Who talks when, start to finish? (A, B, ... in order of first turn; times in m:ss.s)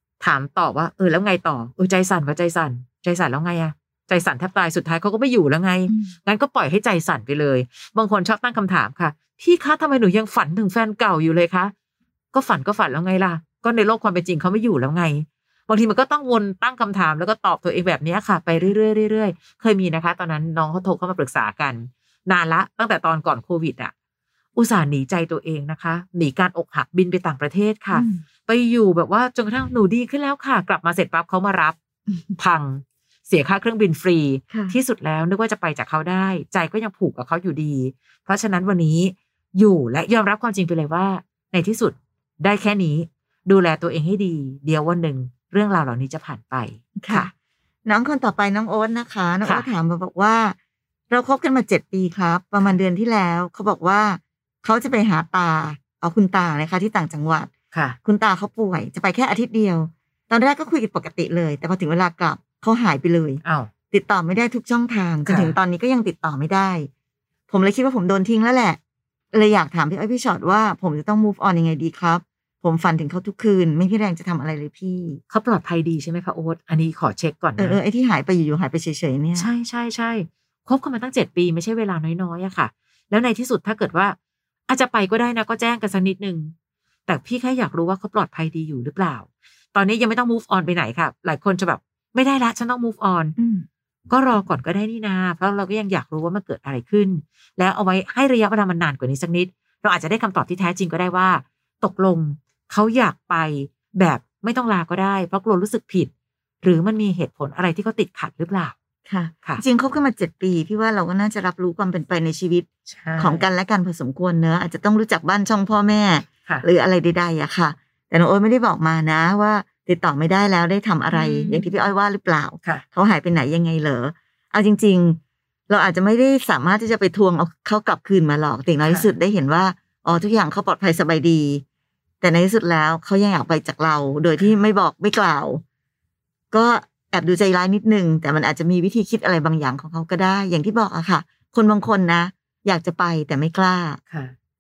0:00.2-0:11.7 A
0:05.9-0:06.1 B
0:12.3-0:23.9 A
0:24.6-0:31.8 A
0:27.9-0:28.2 B
0:32.1-0:32.4 B
0:32.4-0:47.3 A
0:34.5-0:34.8 B
0:47.0-0:47.3 B
0:47.9-0:50.6 B
0:51.1-0:57.5 B
0:57.7-0:58.0 A
0:58.0-1:06.9 B
1:03.4-1:03.7 A
1:05.3-1:05.6 A
1:07.5-1:08.8 B
1:09.3-1:15.2 B
1:15.3-1:17.8 A
1:17.6-1:19.5 B
1:19.4-1:24.2 A
1:24.7-1:26.5 A
1:27.1-1:33.4 A
1:33.4-1:33.7 B
1:34.1-1:46.1 A
1:46.6-1:48.7 A
1:49.1-1:52.7 B
1:52.9-1:53.4 A
1:53.2-2:11.6 B
2:01.1-2:01.7 A
2:12.2-2:15.6 B
2:16.5-2:24.0 B